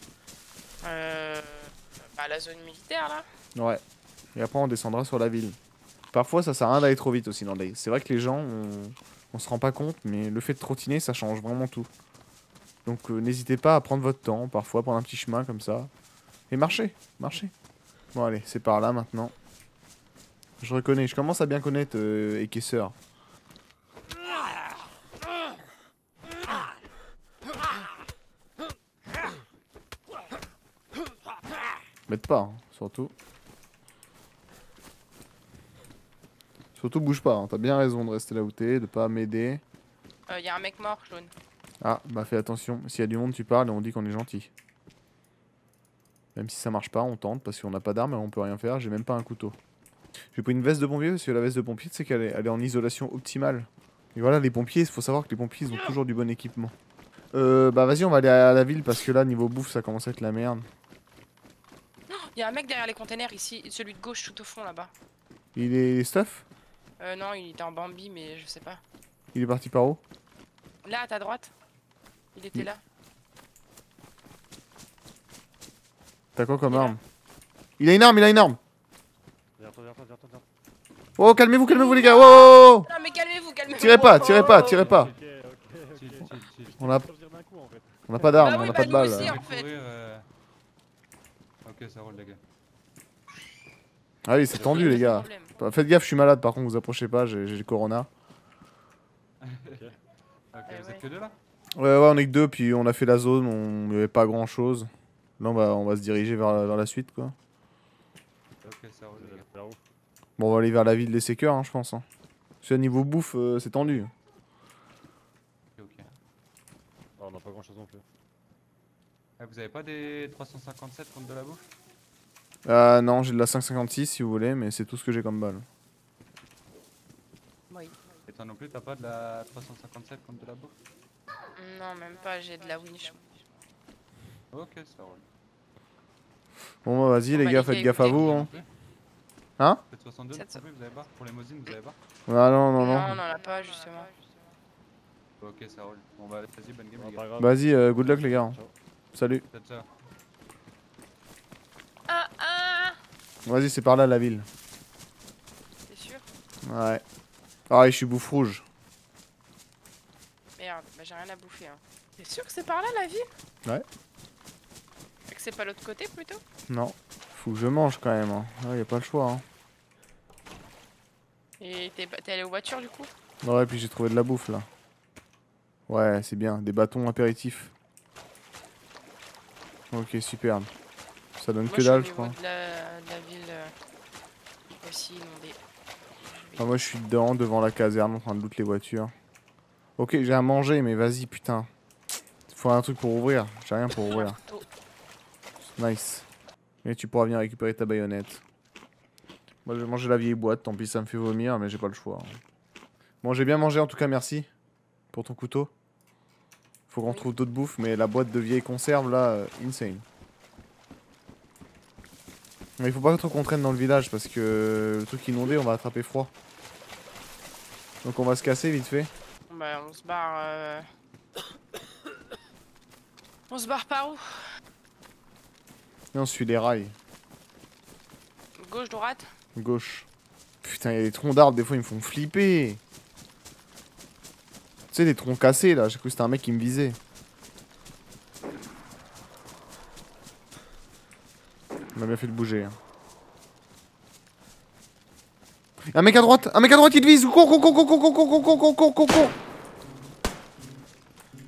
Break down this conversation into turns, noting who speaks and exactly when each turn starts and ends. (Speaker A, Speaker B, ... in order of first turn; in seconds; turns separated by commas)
Speaker A: 0.8-3.2, Speaker B: 3.5-3.8, Speaker B: 4.3-5.6, Speaker B: 6.1-11.9, Speaker B: 12.8-15.9, Speaker B: 16.5-17.5, Speaker B: 18.1-19.3, Speaker B: 20.6-22.9, Speaker B: 32.1-33.1, Speaker B: 36.7-39.6, Speaker A: 40.3-41.3, Speaker B: 41.8-44.5, Speaker B: 46.3-49.6, Speaker B: 50.3-56.7, Speaker B: 57.3-60.7, Speaker A: 62.1-64.9, Speaker B: 65.5-66.4, Speaker A: 67.0-68.8, Speaker B: 69.3-70.0, Speaker A: 70.8-71.5, Speaker A: 72.3-72.8, Speaker B: 76.3-77.0, Speaker A: 76.7-77.0, Speaker B: 77.8-78.6, Speaker C: 79.6-80.4, Speaker B: 81.2-82.9, Speaker A: 81.7-84.9, Speaker B: 83.7-85.1, Speaker C: 83.9-88.7, Speaker D: 85.9-86.8, Speaker B: 86.8-87.1, Speaker B: 88.1-89.4, Speaker A: 88.2-89.7, Speaker D: 88.6-90.2, Speaker D: 91.6-92.4, Speaker B: 94.2-98.1, Speaker C: 94.5-95.0, Speaker A: 94.5-95.6, Speaker D: 99.4-99.9, Speaker D: 100.5-101.3, Speaker A: 100.7-101.0, Speaker B: 101.8-107.3, Speaker D: 108.6-109.5, Speaker C: 109.2-109.8, Speaker B: 110.4-112.0, Speaker B: 112.6-114.1, Speaker D: 115.8-116.1, Speaker C: 117.2-118.0, Speaker D: 119.4-121.6, Speaker B: 122.7-125.7, Speaker A: 127.7-127.9, Speaker D: 128.2-130.8, Speaker A: 131.6-133.2, Speaker D: 134.5-135.2, Speaker B: 136.8-138.5, Speaker A: 137.3-138.5, Speaker D: 138.0-138.7, Speaker D: 139.9-141.9, Speaker A: 140.3-140.6, Speaker B: 142.3-143.2, Speaker A: 142.8-144.1, Speaker D: 145.4-147.3, Speaker C: 147.0-148.7, Speaker B: 147.4-148.6, Speaker B: 149.1-149.4, Speaker D: 149.5-149.9, Speaker A: 152.1-153.0, Speaker B: 153.4-154.5, Speaker A: 155.9-156.2, Speaker B: 156.6-157.0, Speaker B: 157.7-158.6, Speaker A: 160.6-163.3, Speaker A: 165.3-166.4, Speaker B: 166.7-169.4, Speaker A: 171.6-173.1, Speaker B: 173.4-174.7, Speaker B: 175.9-177.7, Speaker B: 179.9-180.7, Speaker B: 181.4-182.4, Speaker A: 181.7-183.7, Speaker A: 184.7-185.6, Speaker A: 186.3-186.9, Speaker B: 186.6-189.1, Speaker B: 190.0-191.7, Speaker B: 192.5-194.4, Speaker A: 194.1-194.6, Speaker B: 195.6-196.3, Speaker B: 196.8-198.4, Speaker B: 199.6-202.4, Speaker B: 203.2-204.5, Speaker B: 205.1-205.7, Speaker B: 206.9-210.0, Speaker B: 212.8-216.3, Speaker B: 218.0-219.1, Speaker A: 219.5-220.8, Speaker A: 223.5-224.4, Speaker B: 226.1-226.9, Speaker A: 228.6-229.3, Speaker B: 229.5-230.1, Speaker B: 230.6-232.8, Speaker B: 234.9-237.0, Speaker B: 241.9-242.8, Speaker B: 245.9-249.3